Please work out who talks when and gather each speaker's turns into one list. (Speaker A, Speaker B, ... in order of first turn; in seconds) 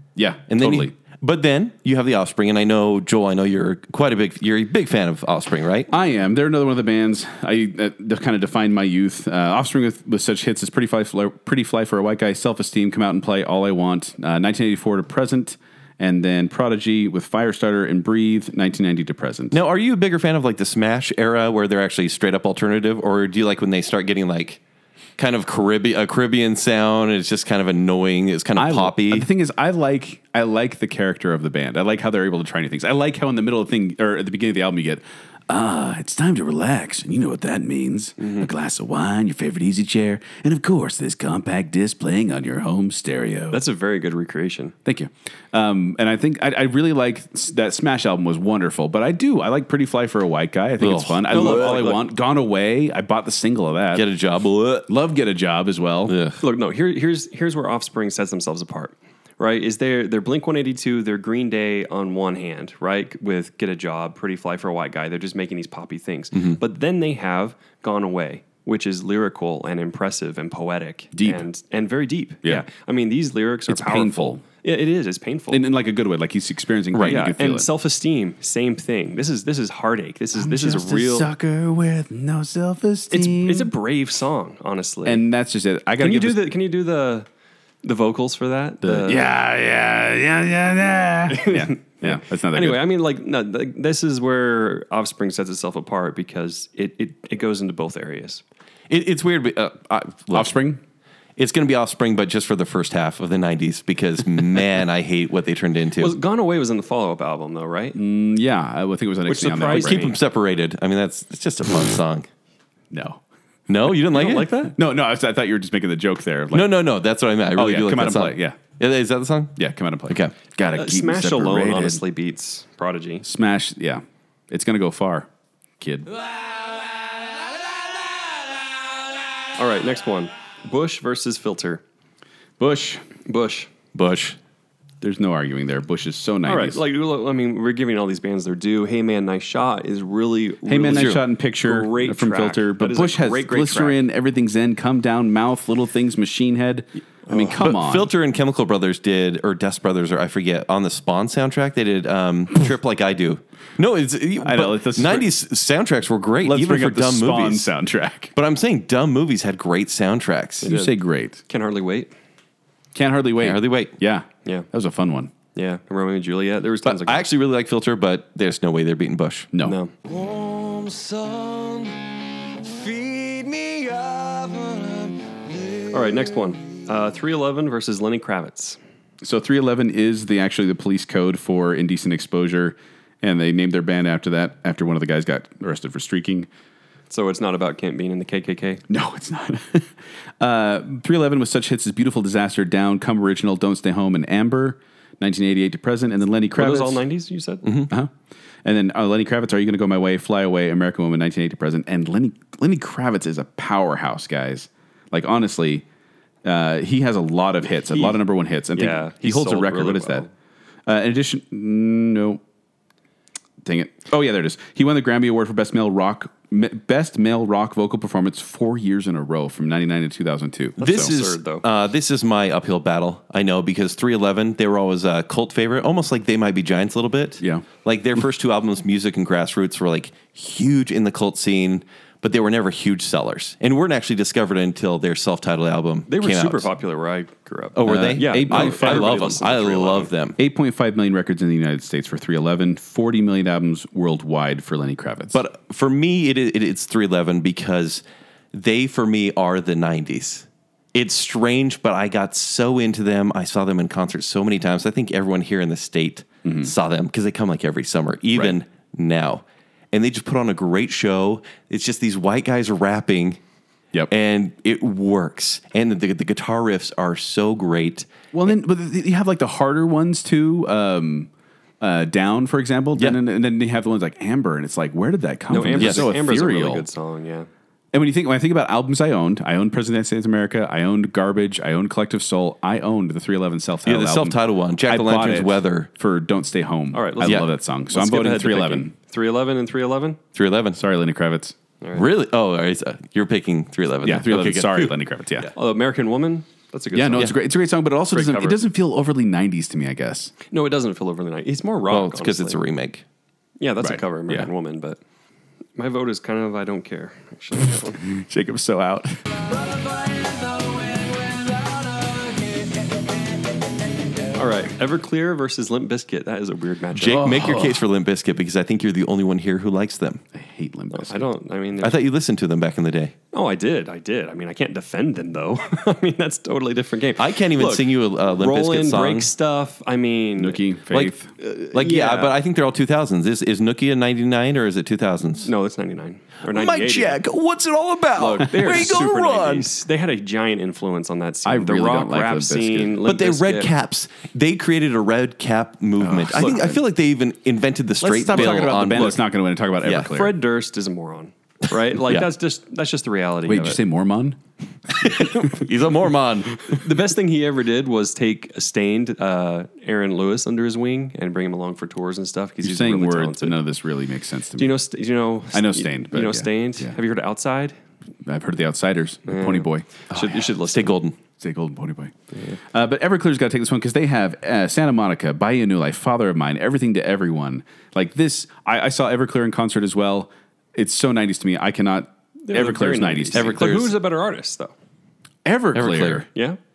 Speaker A: 0.1-0.9, 5.9-19.6, 28.6-43.6, 44.8-54.0, 54.9-56.2, 71.1-71.4, 73.7-74.4, 75.5-77.7, 80.3-83.7, 85.0-86.5, 88.8-92.8, 100.3-100.8, 108.0-110.1, 112.9-113.2, 114.7-116.8, 117.5-118.6, 119.6-122.0, 123.2-125.3, 125.8-126.1, 132.6-133.0, 135.0-136.8, 140.7-148.1, 154.4-155.3, 156.4-158.3, 160.6-161.4, 162.9-165.3, 169.5-169.8, 179.2-186.5, 188.9-197.0, 198.6-205.8, 206.4-210.2, 210.8-212.4, 213.6-221.1, 227.4-227.7, 237.8-239.3, 240.4-245.4, 256.4-256.7, 268.3-271.3, 271.8-276.9, 277.9-288.9, 290.7-291.5, 294.0-295.5, 296.9-300.3, 303.8-304.5, 308.0-309.2, 317.1-317.8, 320.3-321.3, 330.4-331.3, 341.4-343.0, 346.0-346.8, 348.0-350.4, 353.4-354.4, 362.6-364.8, 365.5-367.0, 368.2-370.4, 371.4-372.1, 372.7-383.6, 385.4-386.3
Speaker B: 0.5-5.9, 19.5-24.6, 25.2-29.3, 50.8-51.7, 53.9-54.9, 56.1-56.4, 76.9-77.3, 98.9-100.5, 101.4-106.2, 109.6-112.3, 113.7-114.5, 116.5-119.6, 133.9-134.4, 140.9-141.2, 147.6-157.7, 158.3-160.7, 163.4-163.9, 166.8-169.5, 197.6-197.9, 220.8-236.7, 237.7-240.4, 245.3-263.4, 264.1-268.1, 275.8-276.1, 283.8-285.9, 287.2-287.5, 290.3-290.8, 291.9-294.9, 301.9-303.0, 317.0-320.2, 321.8-323.1, 327.2-329.3, 330.9-335.5, 336.4-339.7, 343.0-349.2, 349.8-350.1, 354.9-356.6, 370.4-371.1, 383.3-383.9, 385.7-386.2
Speaker C: 38.2-38.5, 43.5-44.7, 51.3-52.0, 56.4-75.7, 77.0-81.3, 83.1-85.2, 86.0-87.3, 87.8-89.2, 91.3-98.4, 106.0-108.0, 109.3-110.2, 114.1-114.7, 120.7-123.2, 129.6-131.8, 133.2-133.7, 136.4-144.0, 147.3-147.6, 160.6-160.9, 161.5-162.1, 165.5-167.3, 169.6-169.9, 175.9-178.8, 187.1-188.8, 196.5-197.7, 207.9-208.2, 208.7-210.3, 220.8-221.6, 236.1-240.1, 275.5-277.5, 286.9-290.2, 291.8-292.1, 295.5-297.3, 298.1-298.6, 300.5-302.6, 303.6-305.0, 305.8-308.1, 314.3-317.2, 320.9-322.0, 323.3-330.6, 331.5-332.4, 335.4-337.2, 338.1-343.7, 346.4-346.6, 348.3-349.2, 350.1-353.8, 356.6-363.6, 364.6-367.8, 369.3-370.9, 382.4-384.7
Speaker D: 170.0-176.2, 309.5-312.8